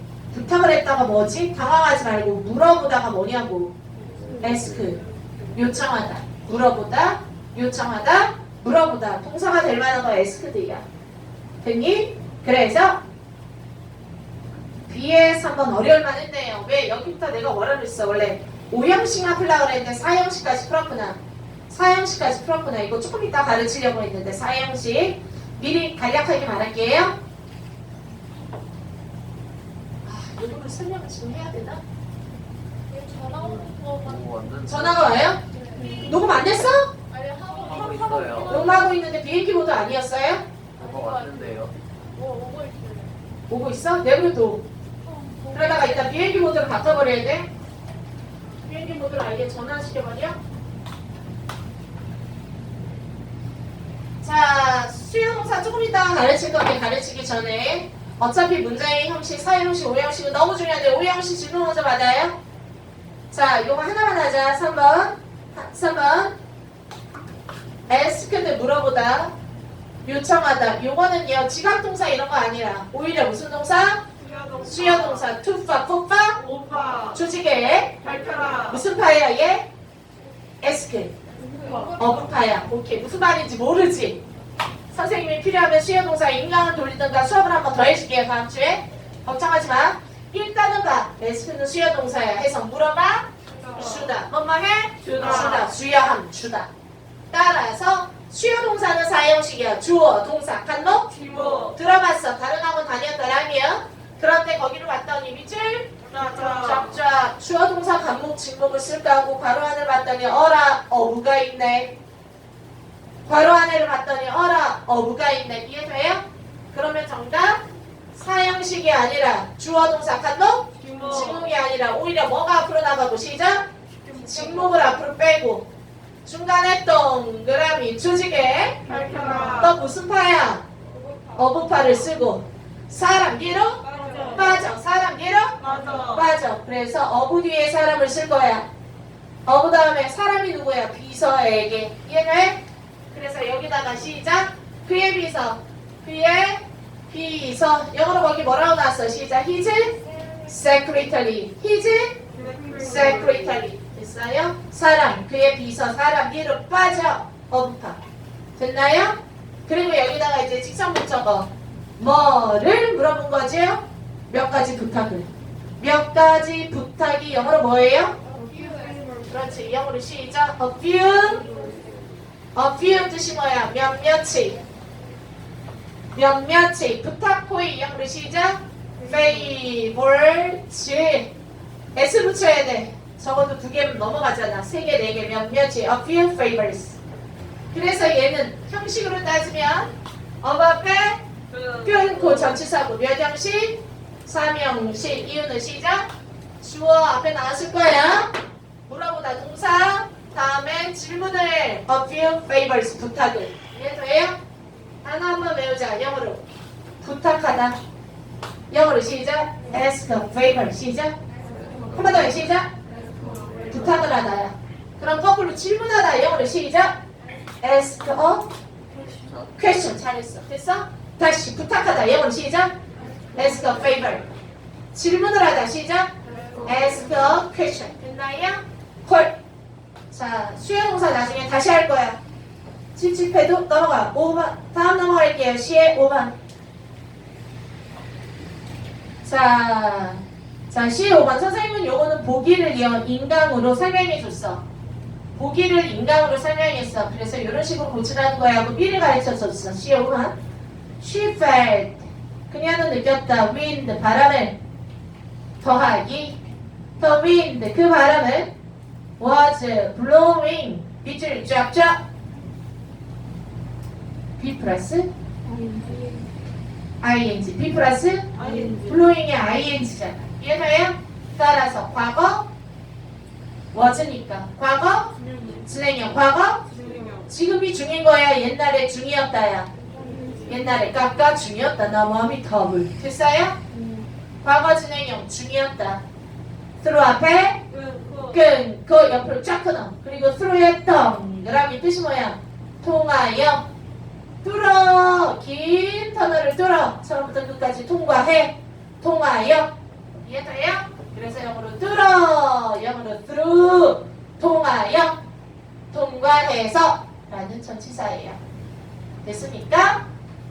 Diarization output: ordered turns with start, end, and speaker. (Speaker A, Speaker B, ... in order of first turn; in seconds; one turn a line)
Speaker A: 0.3-3.8
Speaker B: 4.0-5.0
Speaker C: 4.1-4.7
Speaker A: 4.4-5.0
Speaker A: 5.5-10.8
Speaker A: 11.6-13.0
Speaker A: 14.9-21.2
Speaker A: 21.7-27.2
Speaker A: 30.1-31.8
Speaker C: 32.9-34.3
Speaker B: 33.4-35.2
Speaker A: 34.7-36.9
Speaker C: 35.5-36.3
Speaker C: 37.1-39.0
Speaker B: 37.5-38.8
Speaker A: 38.5-40.5
Speaker B: 40.8-41.8
Speaker C: 40.8-43.2
Speaker A: 43.5-44.6
Speaker C: 45.0-46.3
Speaker A: 45.5-47.5
Speaker A: 48.6-50.4
Speaker A: 54.2-62.4
Speaker A: 63.3-66.3
Speaker A: 67.9-69.3
Speaker A: 70.0-74.0
Speaker D: 74.2-75.4
Speaker A: 74.6-76.4
Speaker D: 76.4-77.3
Speaker A: 77.1-78.0
Speaker D: 78.0-78.8
Speaker A: 78.7-79.7
Speaker A: 80.6-81.1
Speaker C: 81.5-82.3
Speaker D: 81.6-81.9
Speaker A: 82.0-84.2
Speaker A: 84.9-96.7
Speaker D: 93.5-94.1
Speaker D: 95.0-95.7
Speaker A: 97.3-101.1
Speaker D: 101.1-101.8
Speaker A: 101.7-111.9
Speaker D: 106.1-106.9
Speaker A: 113.3-125.7
Speaker D: 120.8-121.5
Speaker C: 120.9-121.3
Speaker C: 124.0-124.6
Speaker A: 126.2-128.8
Speaker D: 128.8-129.8
Speaker C: 128.9-129.7
Speaker A: 129.6-130.6
Speaker A: 131.4-135.6
Speaker D: 133.8-134.6
Speaker D: 135.6-136.3
Speaker A: 136.1-138.7
Speaker A: 139.5-152.2
Speaker C: 150.1-150.5
Speaker D: 152.3-153.6
Speaker C: 152.4-153.1
Speaker A: 152.8-158.0
Speaker A: 158.6-165.3
Speaker A: 165.8-168.2
Speaker C: 168.2-169.7
Speaker D: 168.4-169.0
Speaker A: 169.3-171.4
Speaker C: 171.2-171.9
Speaker B: 171.3-172.3
Speaker A: 172.5-174.6
Speaker A: 176.1-181.3
Speaker C: 179.0-179.6
Speaker A: 181.9-187.0
Speaker A: 187.7-191.2
Speaker D: 191.5-192.6
Speaker A: 191.8-196.1
Speaker A: 196.6-198.3
Speaker A: 198.9-204.4
Speaker A: 205.0-206.4
Speaker A: 207.0-207.8
Speaker A: 208.7-211.2
Speaker C: 211.3-212.4
Speaker B: 211.4-214.1
Speaker A: 211.9-212.7
Speaker C: 213.0-213.7
Speaker D: 213.2-213.7
Speaker A: 213.7-217.0
Speaker A: 217.6-218.5
Speaker C: 218.9-219.4
Speaker B: 219.2-219.6
Speaker A: 219.6-222.8
Speaker A: 223.3-224.2
Speaker C: 223.4-223.8
Speaker A: 224.9-229.3
Speaker D: 226.3-227.2
Speaker B: 226.8-227.3
Speaker A: 230.1-232.2
Speaker A: 232.9-236.4
Speaker A: 239.2-244.6
Speaker A: 245.4-250.3
Speaker A: 251.0-254.6
Speaker A: 255.6-256.4
Speaker A: 257.0-258.5
Speaker A: 259.2-262.0
Speaker A: 264.4-265.1
Speaker C: 265.4-266.3
Speaker A: 267.0-272.5
Speaker D: 268.4-269.1
Speaker C: 268.4-268.8
Speaker A: 273.7-275.1
Speaker C: 275.2-275.7
Speaker A: 275.7-276.6
Speaker D: 276.7-277.3
Speaker C: 276.7-277.2
Speaker A: 277.3-279.7
Speaker C: 279.8-280.8
Speaker D: 279.9-280.6
Speaker A: 280.5-283.6
Speaker C: 283.7-284.1
Speaker A: 284.4-286.0
Speaker A: 286.8-287.6
Speaker D: 287.7-288.4
Speaker A: 288.3-293.6
Speaker A: 294.4-299.7
Speaker A: 300.2-305.2
Speaker A: 305.9-308.4
Speaker A: 309.2-310.0